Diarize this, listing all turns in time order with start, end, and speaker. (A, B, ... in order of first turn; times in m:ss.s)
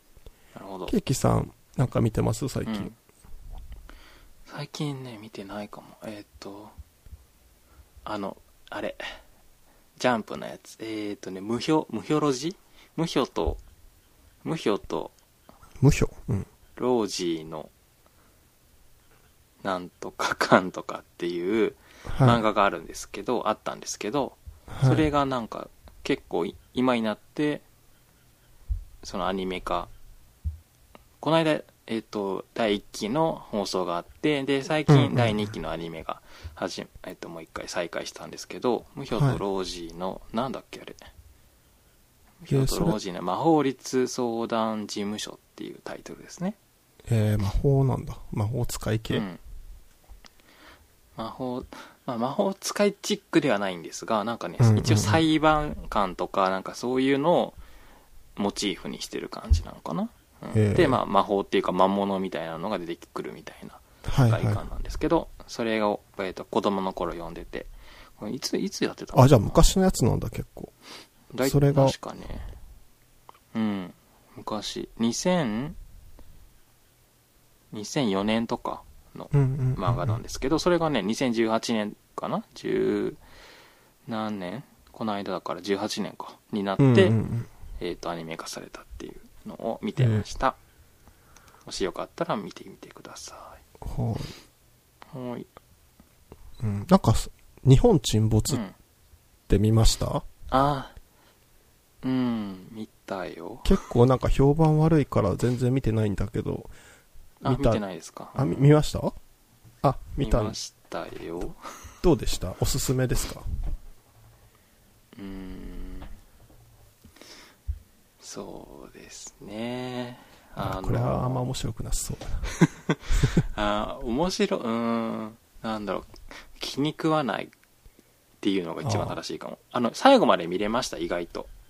0:00.5-0:00.9 A
0:00.9-0:02.9 B
0:02.6-0:02.9 A
0:04.5-0:06.7 A
0:08.0-0:09.0 A
0:10.0-0:13.6 A
0:14.4-0:15.1 A
0:15.8-0:16.5 B
0:16.8-0:17.7 A
0:19.6-0:27.6 A
0:22.1-0:22.4 B
0:24.7-0:25.0 B
0:29.0-0:29.9 A
0:31.2-0:41.0 A
0:34.9-0:35.4 B
0:39.2-0:39.4 B
0:42.4-0:46.6 A
0:42.5-0:43.0 B
0:47.1-0:49.2 B
0:49.1-0:49.4 A
0:51.2-0:57.6 A
0:54.6-0:55.2 B
0:58.4-1:09.6 A
1:00.5-1:01.0 B
1:04.0-1:04.6 B
1:09.1-1:10.7 B
1:11.3-1:12.4 A
1:11.4-1:11.9 B
1:13.5-1:15.8 A
1:17.7-1:23.2 A
1:19.3-1:20.2 B
1:24.1-1:27.2 A
1:26.8-1:27.5 B
1:27.8-1:30.6 A
1:30.0-1:30.2 B
1:31.6-1:33.6 A
1:33.8-1:34.3 B
1:35.1-1:35.5 A
1:36.6-1:38.6 B
1:38.5-1:38.7 A
1:39.5-1:40.2 B
1:40.5-1:40.9 A
1:42.0-1:43.8 A
1:43.6-1:46.7 B
1:47.4-1:48.7 A
1:47.4-1:47.8 B
1:48.4-1:49.1 B
1:49.8-1:50.6 B
1:50.2-1:51.6 A
1:52.0-1:53.4 B
1:55.2-1:56.1 A
1:58.2-2:01.4 A
2:00.6-2:02.5 B
2:02.6-2:07.5 A
2:08.4-2:11.5 A
2:08.8-2:09.2 B